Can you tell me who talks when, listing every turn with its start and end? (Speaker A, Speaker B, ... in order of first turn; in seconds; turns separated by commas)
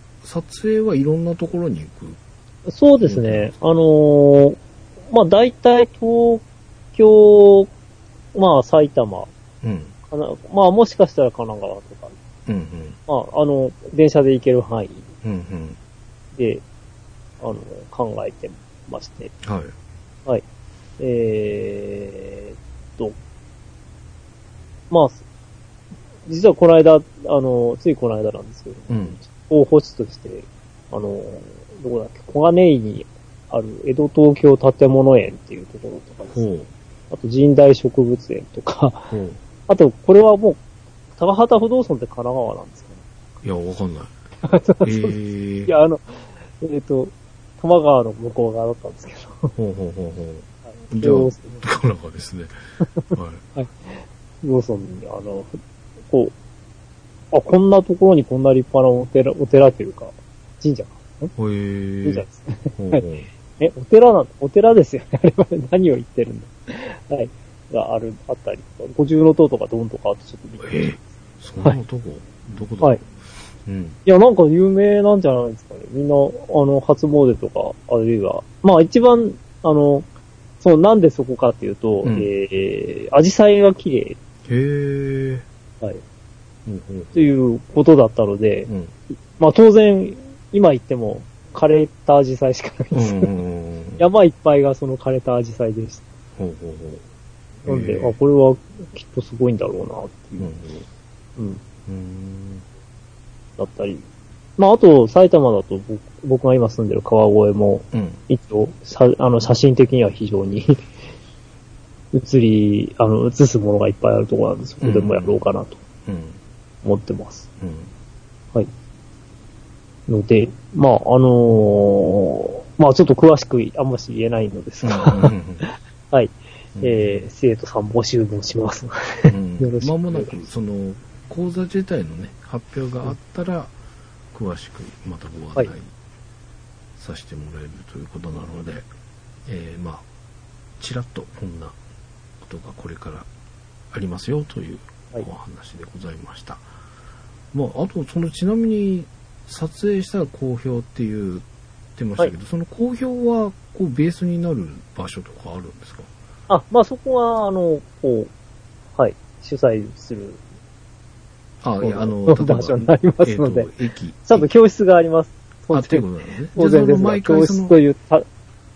Speaker A: 0.2-2.2, Speaker B: 2.7-4.6, Speaker A: 3.0-3.5, Speaker B: 5.1-7.7, Speaker B: 8.3-9.3, Speaker A: 9.6-9.9, Speaker B: 10.1-12.2, Speaker A: 12.5-13.0, Speaker B: 13.1-15.1, Speaker A: 15.2-15.8, Speaker B: 16.4-16.6, Speaker B: 17.4-19.3, Speaker A: 19.4-19.8, Speaker B: 21.0-23.2, Speaker B: 24.9-25.2, Speaker B: 26.3-36.5, Speaker A: 28.9-29.2, Speaker A: 36.3-36.7, Speaker B: 37.1-39.1, Speaker A: 39.1-39.4, Speaker B: 39.7-40.6, Speaker B: 41.2-43.0, Speaker A: 43.4-44.1, Speaker B: 44.4-49.5, Speaker A: 44.8-45.7, Speaker A: 49.6-52.6, Speaker B: 50.7-51.7, Speaker B: 52.8-55.6, Speaker A: 53.1-53.5, Speaker B: 57.3-61.3, Speaker A: 61.4-62.3, Speaker B: 62.0-63.0, Speaker A: 62.8-63.3, Speaker B: 63.6-71.0, Speaker A: 70.6-73.1, Speaker A: 73.7-74.0, Speaker B: 74.1-80.1, Speaker B: 80.6-84.2, Speaker A: 82.0-82.3, Speaker A: 84.5-85.5, Speaker A: 86.7-87.2, Speaker B: 87.1-93.3, Speaker A: 88.7-88.9, Speaker A: 92.9-94.1, Speaker B: 94.0-96.0, Speaker A: 96.4-97.0, Speaker B: 97.6-100.5, Speaker A: 97.7-98.2, Speaker A: 100.4-100.9, Speaker A: 101.9-102.7, Speaker B: 103.6-104.0, Speaker B: 104.6-110.9, Speaker A: 107.9-108.2, Speaker B: 112.1-115.8, Speaker A: 114.8-115.4, Speaker A: 116.1-116.4, Speaker B: 116.8-117.5, Speaker A: 117.6-117.9, Speaker B: 120.1-130.5, Speaker A: 124.8-125.7, Speaker A: 126.8-127.3, Speaker A: 129.3-133.8, Speaker A: 134.3-135.9, Speaker A: 137.0-138.9, Speaker A: 139.5-140.1, Speaker A: 140.8-141.8, Speaker A: 142.4-143.3, Speaker A: 143.9-146.7, Speaker A: 147.5-156.1, Speaker B: 156.5-158.3, Speaker B: 159.0-160.4, Speaker A: 161.6-164.5, Speaker B: 161.8-163.7, Speaker B: 164.2-168.3, Speaker A: 165.7-167.8